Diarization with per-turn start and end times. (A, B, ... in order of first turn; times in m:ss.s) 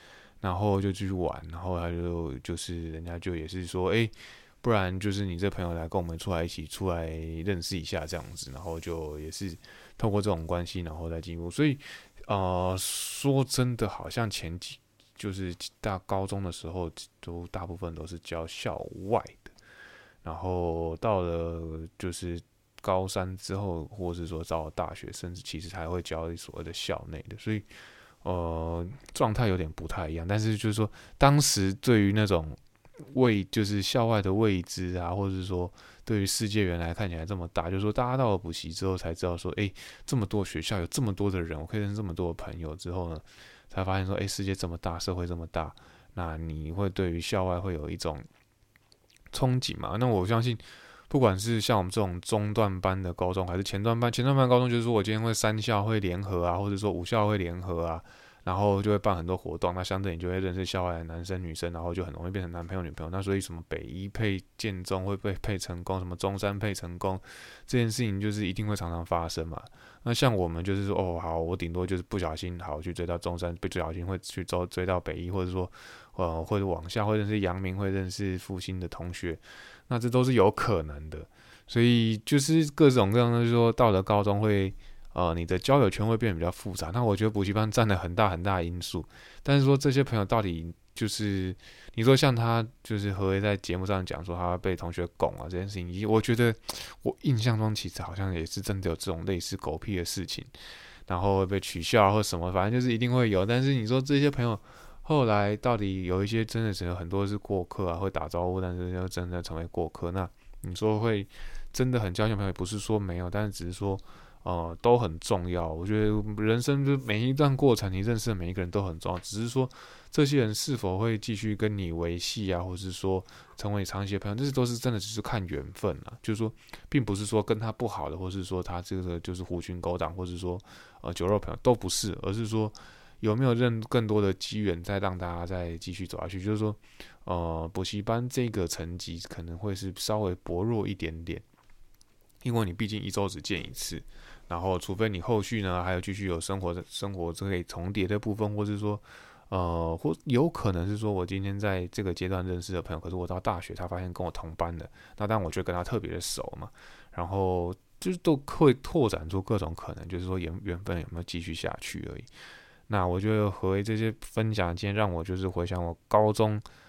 0:00.4-0:19.5 A
0:20.2-0:27.7 A
0:28.2-0:32.6 A
0:33.1-0:48.3 A
0:49.3-1:40.5 A
1:41.1-2:21.4 A
2:22.4-2:42.3 A
2:42.9-2:46.6 A